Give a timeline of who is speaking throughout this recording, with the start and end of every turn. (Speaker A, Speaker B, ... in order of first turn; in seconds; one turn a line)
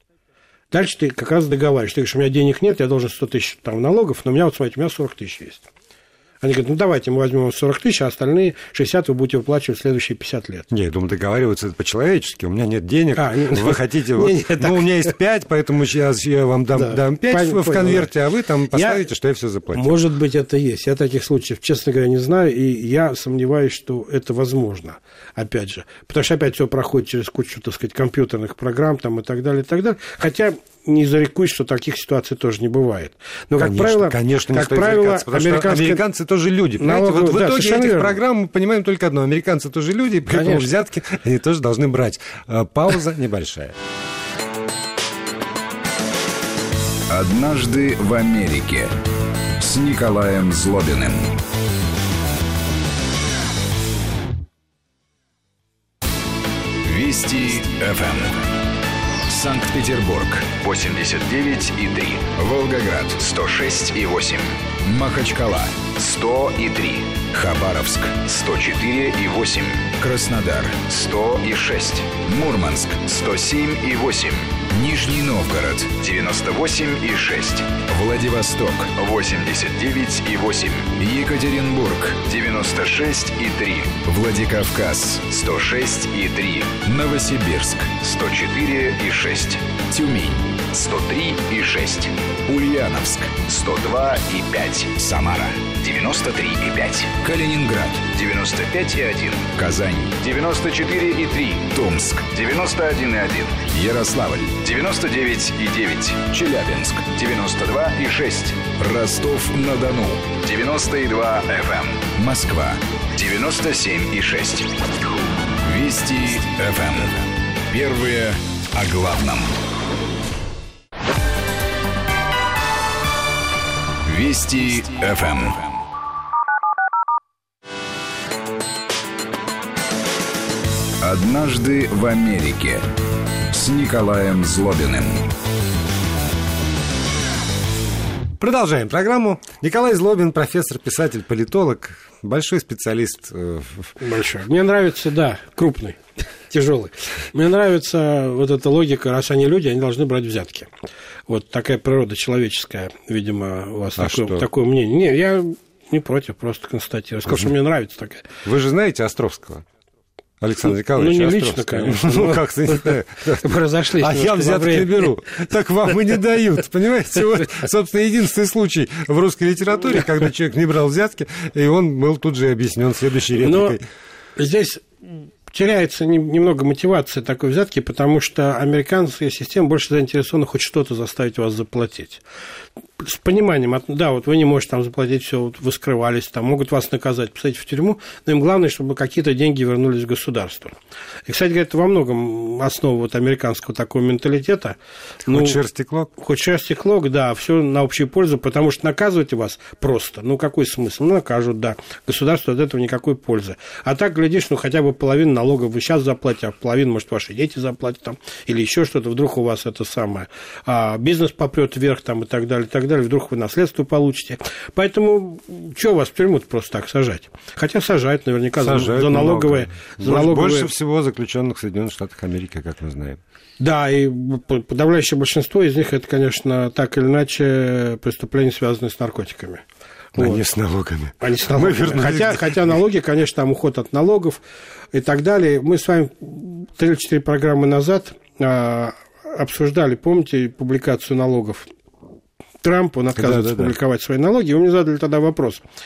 Speaker A: 0.7-5.7
Speaker A: 6.4-10.7
Speaker B: 10.7-19.9
Speaker A: 13.2-15.1
Speaker A: 16.7-18.1
Speaker A: 18.7-19.0
Speaker A: 19.7-36.0
Speaker B: 33.6-43.8
Speaker A: 36.8-38.2
Speaker A: 40.3-40.7
Speaker C: 47.1-48.9
Speaker C: 49.6-51.3
Speaker C: 56.8-58.4
Speaker C: 59.3-114.7
Speaker C: 115.6-119.6
Speaker C: 124.0-125.8
Speaker C: 131.0-132.8
Speaker C: 133.5-135.3
Speaker B: 138.4-143.9
Speaker A: 144.0-150.7
Speaker A: 151.3-158.3
Speaker B: 154.0-154.4
Speaker B: 158.4-159.6
Speaker B: 160.4-173.8
Speaker A: 160.9-165.1
Speaker A: 173.4-173.8
Speaker A: 174.4-174.9
Speaker A: 175.5-182.2
Speaker A: 183.0-190.7
Speaker A: 191.3-194.8
Speaker B: 195.2-196.1
Speaker A: 195.3-195.6
Speaker A: 196.2-220.7
Speaker B: 218.6-223.2
Speaker A: 223.6-229.6
Speaker A: 230.1-230.4
Speaker B: 230.2-232.6
Speaker A: 231.2-234.4
Speaker A: 234.9-241.7
Speaker A: 242.6-245.6
Speaker B: 243.2-243.7